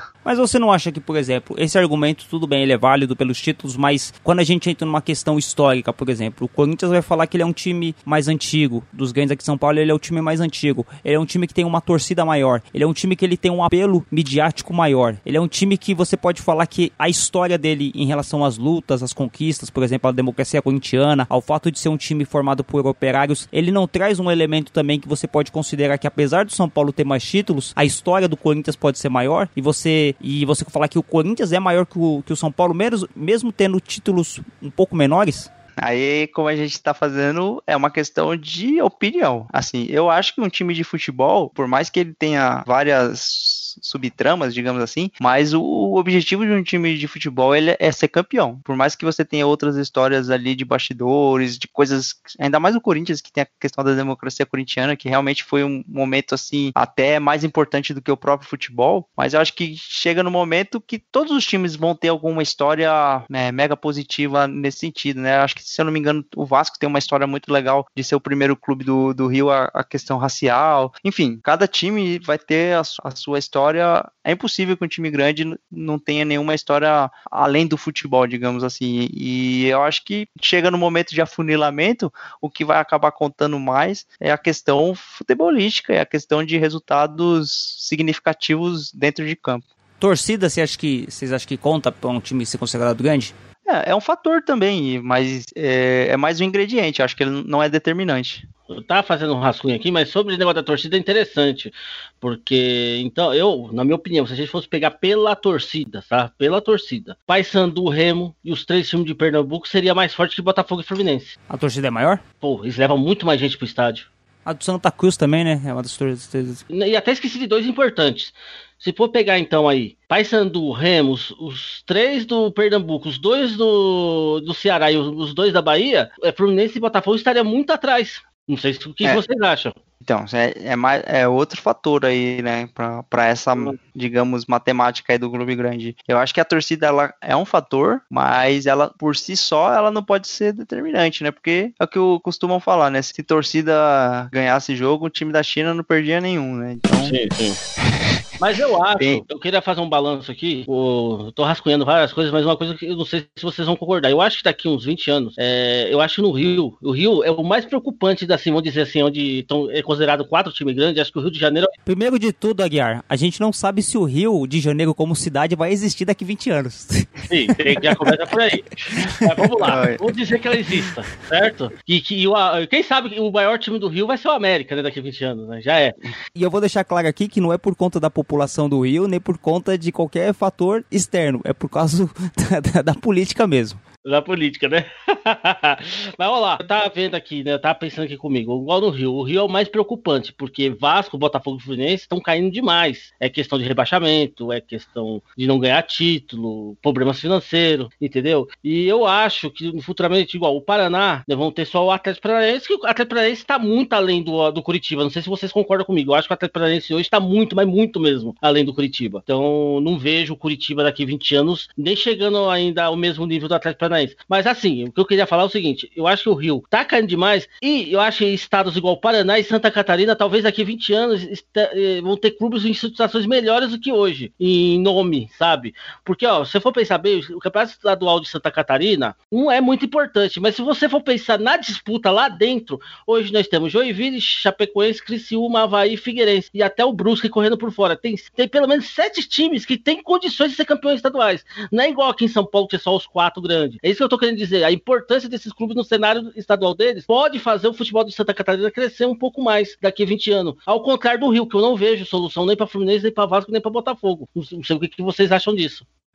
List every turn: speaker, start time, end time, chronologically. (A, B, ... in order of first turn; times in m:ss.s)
0:00.2-0:35.5 A
0:35.8-1:29.6 B
1:30.0-1:33.3 A
1:33.7-1:38.4 B
1:38.7-1:51.4 C
1:51.5-1:52.2 A
1:52.4-1:54.1 C
1:54.5-1:56.6 A
1:56.7-2:09.8 C
2:10.0-2:27.2 B
2:27.0-2:27.6 C
2:28.4-2:41.8 C
2:29.0-2:29.2 B
2:41.9-2:47.9 A
2:47.3-2:56.0 C
2:49.6-2:50.0 B
2:56.4-3:03.8 A
3:04.0-4:15.8 C